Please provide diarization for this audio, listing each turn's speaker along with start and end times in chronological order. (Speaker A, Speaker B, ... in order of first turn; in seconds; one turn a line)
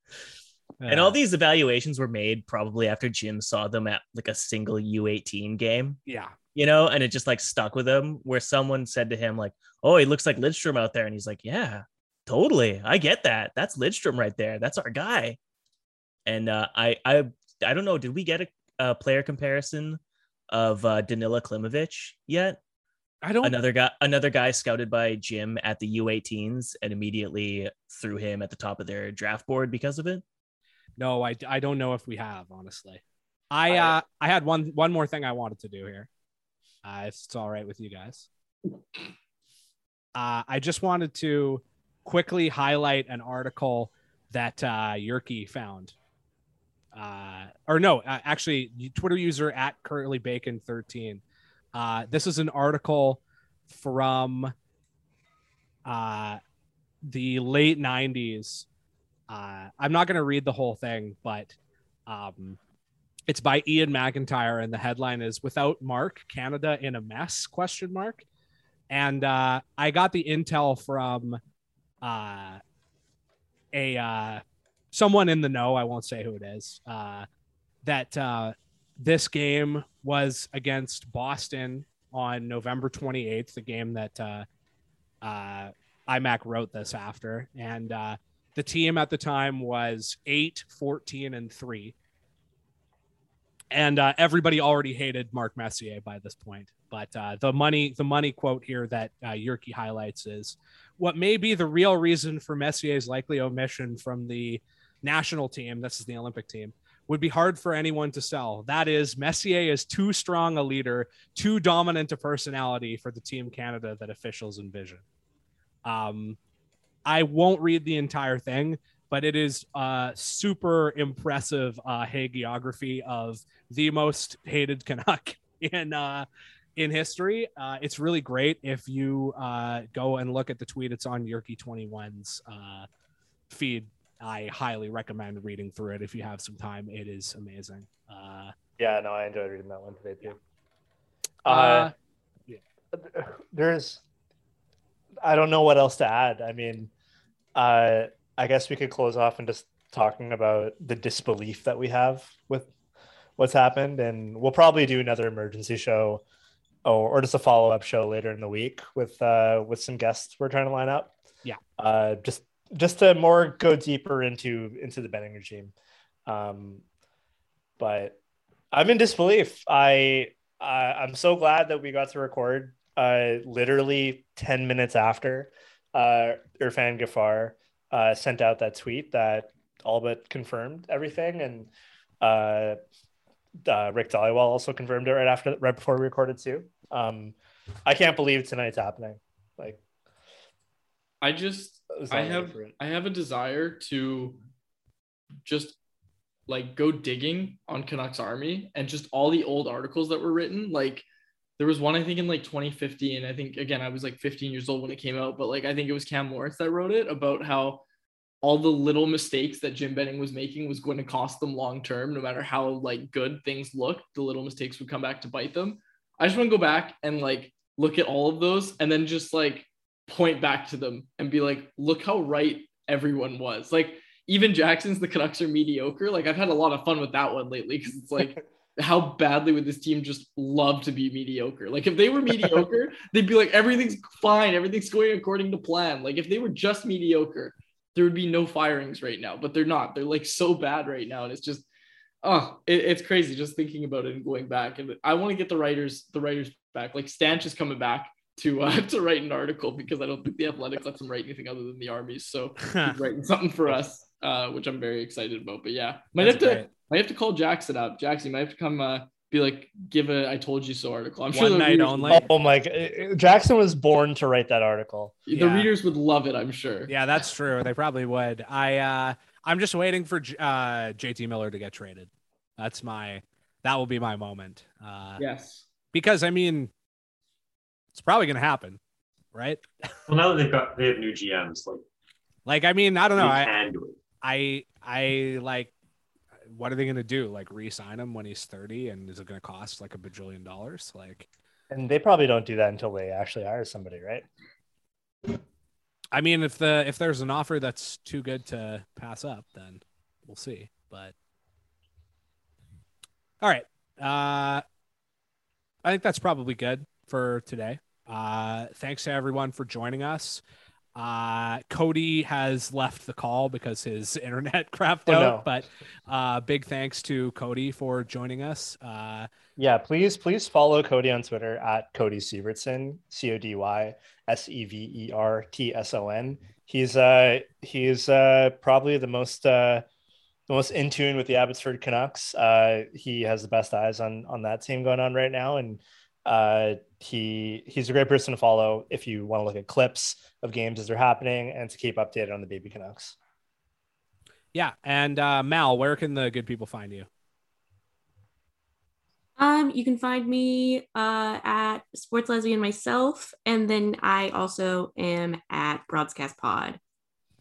Speaker A: 0.8-1.2
Speaker B: 0.9-6.0
Speaker A: 6.1-6.3
Speaker B: 6.5-15.4
Speaker B: 16.3-20.0
Speaker B: 20.5-22.6
Speaker A: 23.2-23.6
Speaker B: 23.4-30.2
Speaker A: 31.0-36.1
Speaker B: 33.7-34.0
Speaker A: 36.8-38.3
Speaker A: 40.1-46.0
Speaker A: 46.9-51.2
Speaker A: 51.8-54.5
Speaker A: 55.9-56.4
Speaker A: 57.0-58.7
Speaker A: 59.3-61.6
Speaker A: 62.1-62.6
Speaker A: 63.3-68.2
Speaker A: 68.9-71.4
Speaker A: 72.0-72.6
Speaker A: 73.7-77.3
Speaker A: 77.8-84.5
Speaker A: 85.2-92.0
Speaker A: 93.7-115.0
Speaker A: 115.8-116.4
Speaker A: 117.1-126.3
Speaker A: 126.8-132.9
Speaker A: 133.5-138.5
Speaker C: 138.8-140.4
Speaker C: 141.4-141.9
Speaker A: 141.5-141.9
Speaker C: 142.9-144.0
Speaker C: 145.2-146.9
Speaker C: 147.6-152.7
Speaker C: 153.4-156.2
Speaker C: 156.8-161.1
Speaker C: 161.8-165.7
Speaker C: 166.3-166.8
Speaker C: 167.8-168.2
Speaker C: 168.7-181.7
Speaker C: 182.2-182.8
Speaker C: 183.6-189.8
Speaker D: 191.2-194.4
Speaker C: 191.9-192.7
Speaker D: 195.4-195.8
Speaker D: 196.5-201.1
Speaker D: 201.6-207.8
Speaker D: 208.4-241.7
Speaker D: 242.2-262.2
Speaker A: 252.7-252.9
Speaker A: 256.2-256.7
Speaker A: 261.3-262.3
Speaker C: 262.1-265.2
Speaker D: 265.3-266.9
Speaker A: 265.3-265.7
Speaker A: 266.9-275.2
Speaker D: 275.2-275.6
Speaker A: 275.9-276.7
Speaker A: 277.9-278.8
Speaker A: 279.3-279.6
Speaker E: 280.1-281.8
Speaker A: 282.5-283.5
Speaker E: 283.2-284.0
Speaker A: 284.2-285.7
Speaker A: 286.5-291.3
Speaker C: 291.7-294.3
Speaker A: 296.1-301.1
Speaker A: 303.4-304.6
Speaker A: 305.8-310.4
Speaker A: 310.9-319.3
Speaker C: 315.1-315.5
Speaker C: 319.6-329.9
Speaker C: 330.5-343.1
Speaker A: 344.5-347.1
Speaker F: 349.4-356.8